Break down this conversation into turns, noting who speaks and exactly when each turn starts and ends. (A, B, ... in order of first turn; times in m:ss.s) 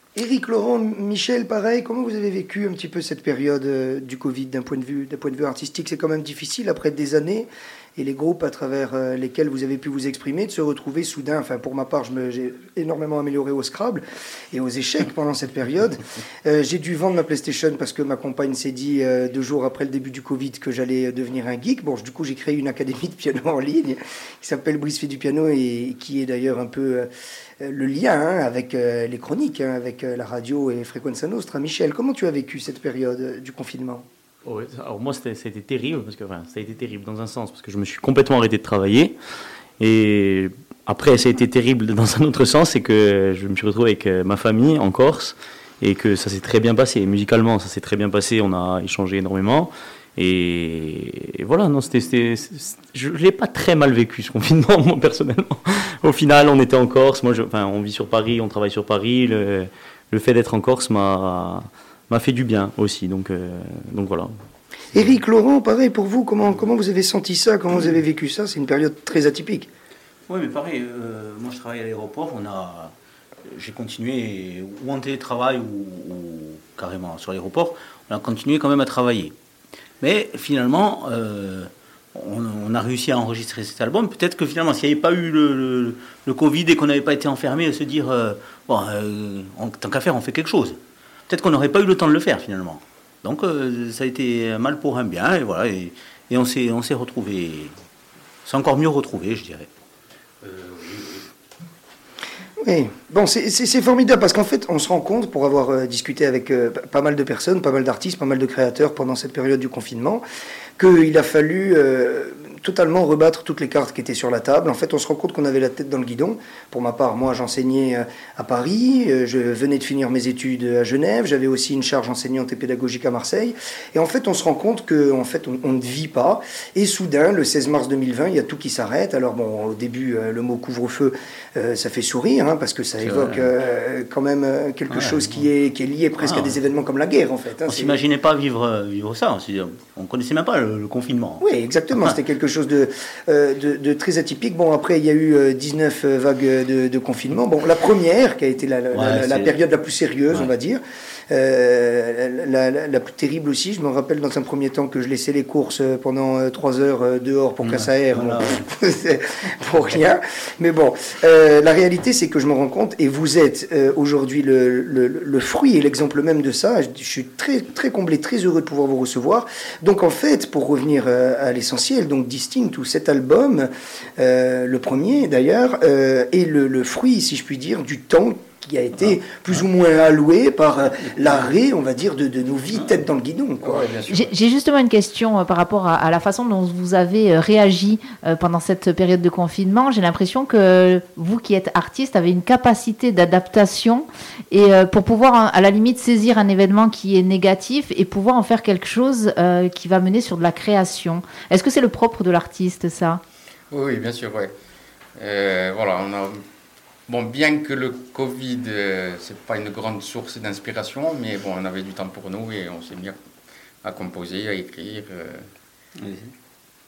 0:00.2-0:27.1 A
0:27.6-0:34.1 A
0:34.4-0:39.1 B
0:39.8-1:04.3 B
1:04.9-1:09.7 A
1:10.3-1:12.9 C
1:13.5-1:19.3 C
1:20.0-1:37.7 C
1:38.4-1:39.7 C
1:40.4-1:41.3 C
1:42.6-1:50.2 A
1:50.8-2:18.0 A
2:13.0-2:13.5 C
2:14.9-2:15.4 C
2:16.2-2:16.6 C
2:17.7-2:21.4 C
2:21.4-3:03.9 A
2:28.9-2:29.5 C
2:37.6-2:38.6 C
3:03.6-3:04.3 D
3:04.1-3:23.2 E
3:23.7-3:24.5 D
3:25.2-3:26.4 D
3:27.1-3:33.2 D
3:33.8-3:35.5 D
3:36.0-3:36.3 C